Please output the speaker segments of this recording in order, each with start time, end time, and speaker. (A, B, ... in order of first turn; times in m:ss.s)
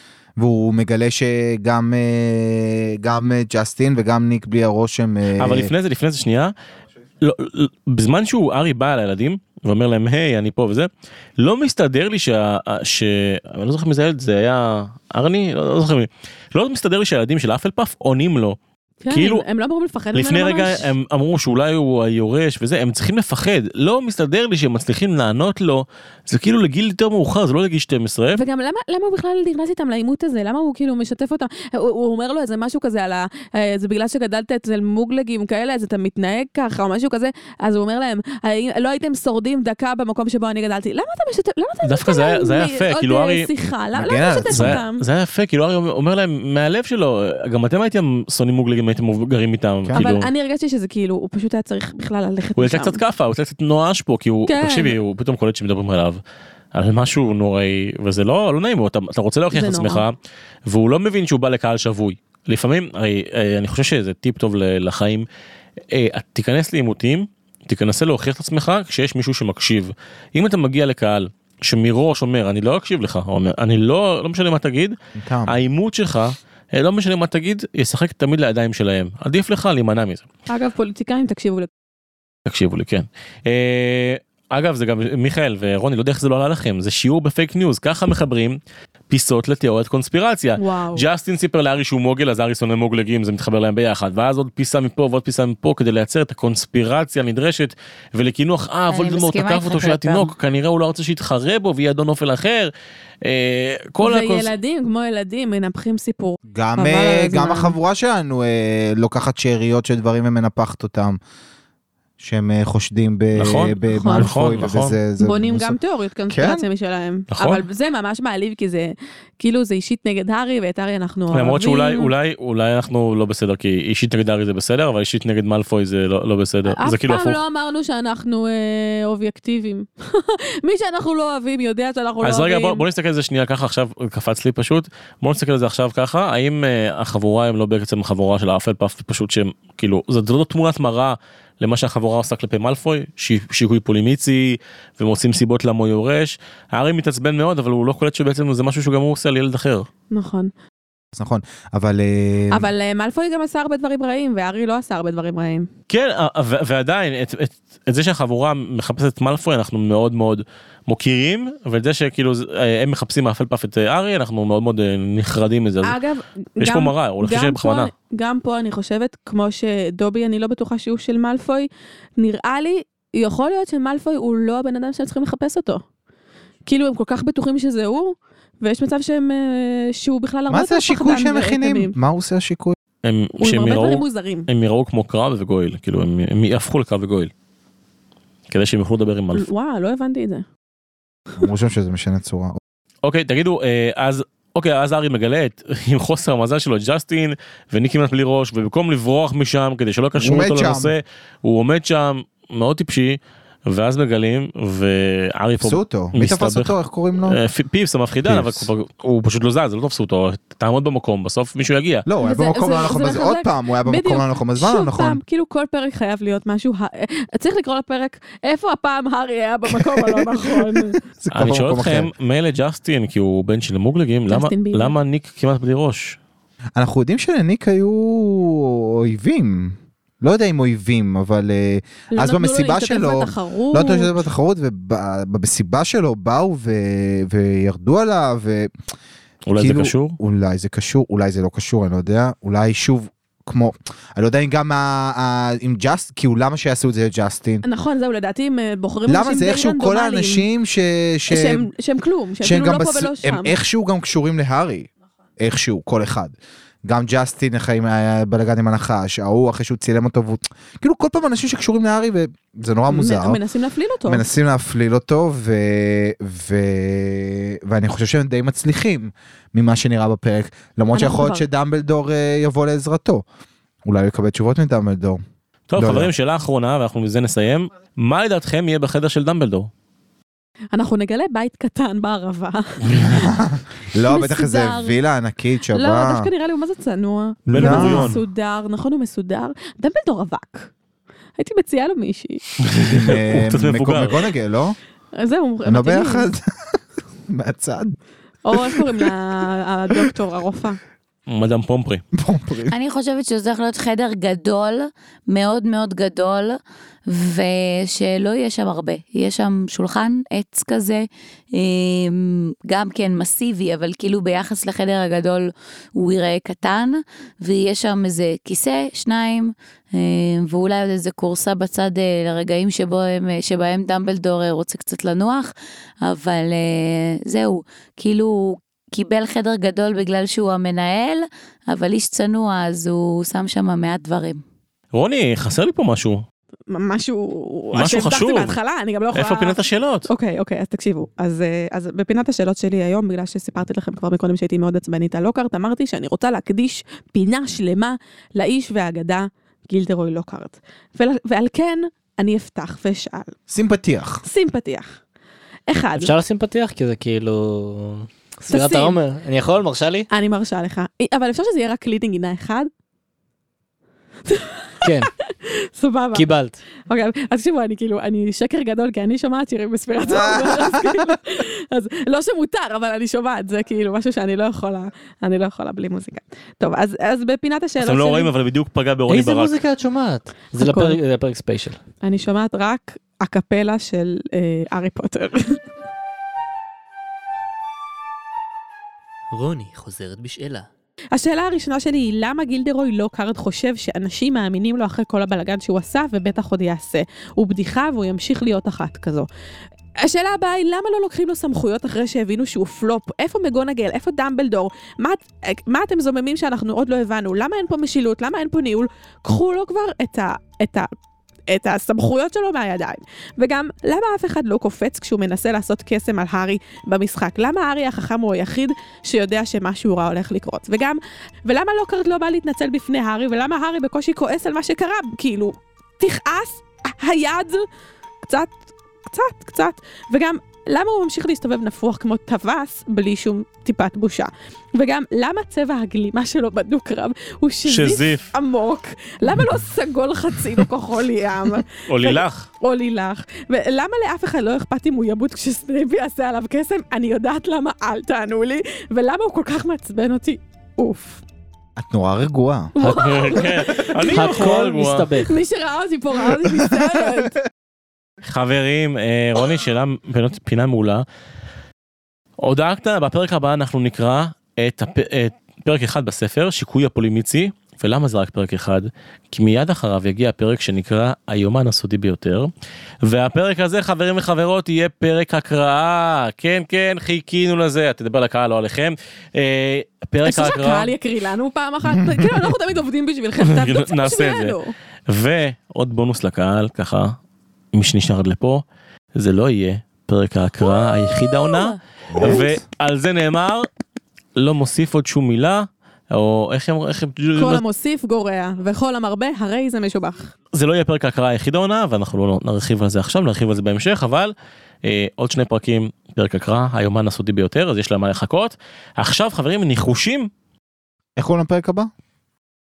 0:00.4-0:05.7 A
0:05.4-0:06.5 B
0:07.2-0:18.6 B
0:19.0-0:20.9 C
0:19.1-0:19.4 B
0:20.1-0:28.4 B
0:28.3-0:45.0 C
0:41.8-0:43.5 B
0:43.9-0:44.8 A
0:44.5-0:50.3 B
0:50.0-0:53.0 C
0:52.6-0:56.2 B
0:54.5-0:55.0 C
0:56.7-1:05.2 B
0:59.5-1:00.0 C
1:05.9-1:15.0 B
1:15.2-1:15.6 A
1:15.5-1:20.2 B
1:20.5-1:21.7 C
1:22.4-1:44.5 B
1:30.6-1:31.0 C
1:38.9-1:40.3 D
1:44.0-1:47.8 C
1:46.5-1:51.2 A
1:52.2-1:55.8 A
1:53.4-1:55.0 B
1:53.9-1:54.3 C
1:55.2-2:02.1 C
1:56.3-1:56.6 A
1:57.3-1:57.6 B
2:01.3-2:07.4 B
2:06.7-2:12.8 C
2:12.2-2:29.9 B
2:30.1-2:30.5 C
2:31.1-2:32.7 A
2:32.5-2:35.7 C
2:35.9-2:46.0 B
2:45.8-2:55.8 C
2:46.6-2:47.9 B
2:56.6-3:01.9 C
3:00.5-3:02.8 A
3:03.0-3:07.3 B
3:03.4-3:04.5 C
3:08.5-3:09.5 B
3:09.3-3:10.4 C
3:11.4-3:12.6 A
3:13.0-3:32.1 B
3:20.2-3:20.9 A
3:25.6-3:27.4 A
3:28.2-3:28.7 A
3:32.0-3:35.2 A
3:32.2-3:41.0 C
3:39.6-3:42.1 A
3:41.3-3:46.2 B
3:44.3-3:45.0 C
3:46.8-3:58.7 A
3:52.1-3:54.2 C
3:59.4-4:00.2 B
3:59.6-4:07.6 A
4:07.6-4:10.4 C
4:09.1-4:11.6 A
4:11.3-4:13.5 C
4:12.4-4:14.9 A
4:15.4-4:23.4 A
4:22.9-4:24.2 C
4:24.0-4:33.2 A
4:30.9-4:31.4 C
4:33.8-4:35.2 A
4:35.7-4:39.7 B
4:35.8-4:36.1 A
4:40.7-4:43.3 C
4:42.9-4:46.3 A
4:44.0-4:45.0 C
4:45.7-4:50.7 C
4:47.5-4:48.2 A
4:47.5-4:48.2 B
4:51.4-4:52.4 C
4:52.6-4:54.2 B
4:52.8-4:54.8 A
4:55.2-4:56.3 C
4:55.6-4:56.5 A
4:57.3-4:58.0 A
4:58.4-5:00.8 C
4:58.5-4:59.1 A
5:01.3-5:02.0 B
5:02.1-5:02.8 A
5:02.7-5:34.4 D
5:34.9-5:36.2 B
5:36.7-5:39.6 C
5:37.7-5:38.6 B
5:39.1-5:40.1 B
5:40.1-5:53.4 C
5:53.5-5:54.2 A
5:54.2-5:54.9 C
5:55.7-5:56.1 C
5:56.0-6:00.1 E
5:58.5-5:59.0 C
6:00.1-6:02.7 C
6:04.3-6:06.2 C
6:04.8-6:05.1 E
6:06.1-6:06.6 E
6:06.9-6:18.3 C
6:10.1-6:11.1 A
6:17.8-6:19.6 B
6:19.1-6:21.8 E
6:20.6-6:21.0 C
6:22.0-6:25.6 C
6:29.3-6:30.7 E
6:31.1-6:39.3 C
6:40.0-6:50.9 C
6:51.5-7:07.6 C
7:08.2-7:31.2 C
7:17.7-7:18.3 B
7:21.8-7:22.5 B
7:31.8-7:32.7 A
7:32.7-7:34.5 C
7:32.8-7:35.1 B
7:34.1-7:35.4 E
7:35.2-7:37.4 C
7:38.3-7:41.0 B
7:42.4-7:52.5 B
7:53.0-8:00.9 B
8:00.2-8:04.7 C
8:03.4-8:04.6 B
8:05.1-8:07.2 B
8:07.7-8:08.6 B
8:09.1-8:13.7 B
8:12.1-8:12.4 A
8:12.2-8:12.5 C
8:14.4-8:17.6 B
8:17.4-8:20.3 C
8:20.5-8:30.3 B
8:31.2-8:31.9 A